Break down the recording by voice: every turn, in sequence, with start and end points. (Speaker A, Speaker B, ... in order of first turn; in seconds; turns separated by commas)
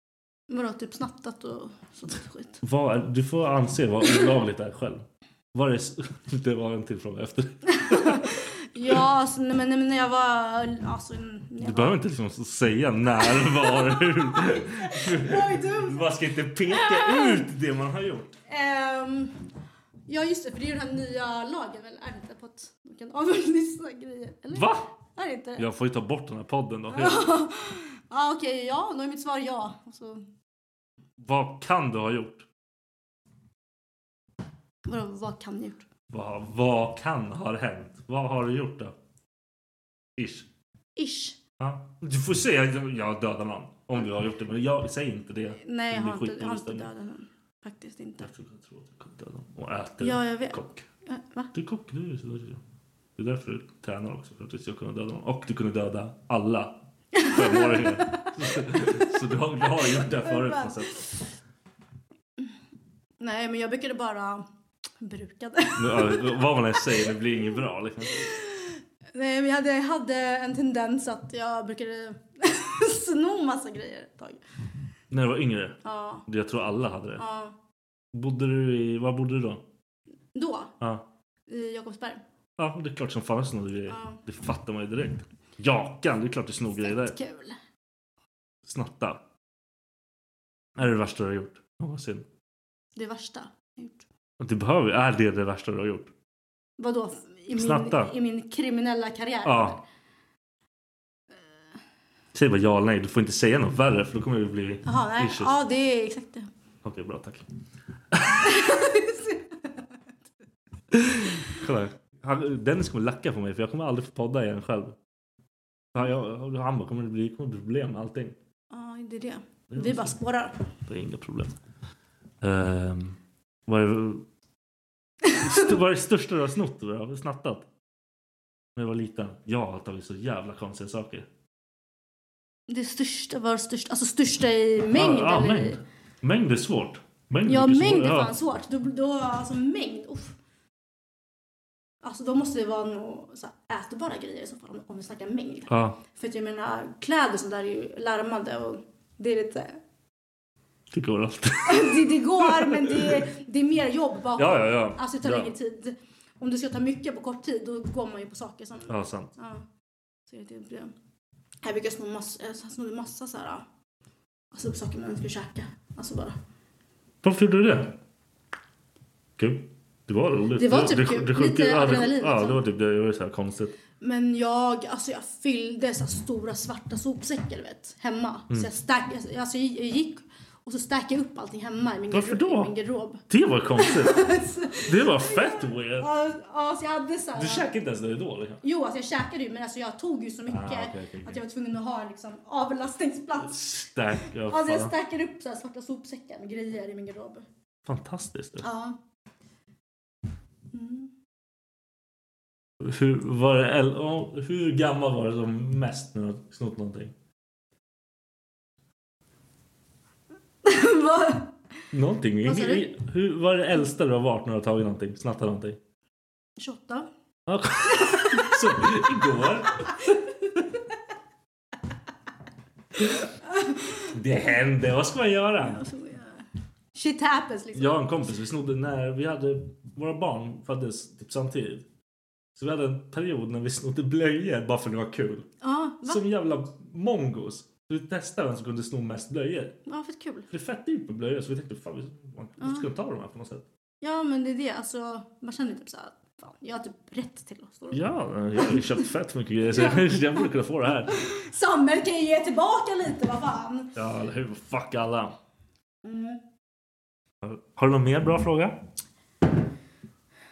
Speaker A: 0.5-2.6, Speaker B: 2.6-8.9, Speaker A: 7.7-12.0, Speaker B: 11.6-18.4, Speaker A: 13.2-16.0, Speaker A: 16.7-17.4, Speaker A: 18.5-19.3, Speaker A: 20.1-25.6, Speaker B: 24.6-24.9, Speaker B: 25.6-27.2, Speaker A: 26.9-30.2, Speaker B: 31.2-32.5, Speaker A: 34.9-35.8, Speaker B: 36.1-38.9, Speaker B: 40.2-40.5, Speaker A: 41.0-41.4, Speaker B: 41.6-46.9, Speaker A: 45.6-48.3, Speaker B: 48.2-50.9, Speaker A: 50.0-51.5, Speaker B: 51.5-52.6, Speaker B: 53.2-61.1, Speaker A: 57.2-58.8, Speaker A: 60.2-61.1, Speaker A: 63.2-64.5, Speaker A: 65.0-67.1, Speaker B: 65.8-68.3, Speaker A: 68.2-74.4, Speaker B: 75.1-77.2, Speaker A: 75.8-76.2, Speaker A: 77.2-77.5, Speaker B: 78.1-79.6, Speaker A: 80.3-80.7, Speaker A: 81.5-82.2, Speaker B: 82.6-87.2, Speaker A: 83.9-84.2, Speaker A: 86.8-87.6, Speaker B: 88.7-89.2, Speaker B: 90.8-92.2, Speaker A: 93.0-94.0, Speaker B: 94.4-96.1, Speaker A: 96.8-99.8, Speaker B: 97.5-98.1, Speaker B: 99.5-99.8, Speaker B: 102.3-105.5, Speaker A: 104.8-106.5, Speaker B: 106.8-107.5, Speaker B: 108.1-108.6, Speaker A: 108.4-109.8, Speaker B: 110.9-115.0, Speaker B: 115.9-118.4, Speaker A: 118.7-120.5, Speaker B: 119.7-120.2, Speaker B: 120.9-121.6, Speaker B: 122.4-124.2, Speaker B: 125.3-127.7, Speaker B: 128.8-131.3, Speaker A: 132.7-135.8, Speaker B: 134.9-138.3, Speaker A: 137.5-140.4, Speaker A: 142.0-149.8, Speaker B: 145.7-146.0, Speaker B: 150.9-153.2, Speaker A: 151.7-159.6, Speaker B: 154.4-155.5, Speaker B: 158.9-159.3, Speaker A: 160.3-160.9, Speaker A: 161.6-163.7, Speaker A: 164.5-166.4, Speaker B: 167.2-167.9, Speaker B: 169.4-173.8, Speaker A: 170.6-172.6, Speaker A: 174.0-183.2, Speaker B: 182.1-182.7, Speaker B: 183.3-184.3, Speaker A: 183.8-187.7, Speaker B: 184.8-186.1, Speaker B: 187.4-188.6, Speaker A: 188.6-193.6, Speaker B: 190.5-191.4, Speaker B: 193.5-194.9, Speaker A: 194.5-197.4, Speaker B: 197.9-198.7, Speaker A: 198.6-199.0, Speaker A: 200.7-201.1, Speaker B: 202.8-207.1, Speaker A: 210.7-211.5, Speaker B: 211.9-215.8, Speaker A: 212.4-212.9, Speaker A: 216.6-217.1, Speaker B: 217.5-220.2, Speaker A: 217.8-218.8, Speaker A: 223.1-224.1, Speaker B: 224.2-225.8, Speaker A: 225.6-228.0, Speaker B: 227.8-231.8, Speaker B: 232.6-235.5, Speaker A: 235.6-236.2, Speaker B: 236.1-239.8, Speaker A: 239.9-240.5, Speaker B: 240.5-243.7, Speaker A: 242.6-242.9, Speaker A: 244.0-248.0, Speaker B: 247.9-251.2, Speaker A: 249.7-250.5, Speaker A: 251.0-253.9, Speaker B: 254.0-255.3, Speaker A: 256.0-256.4, Speaker B: 257.4-258.8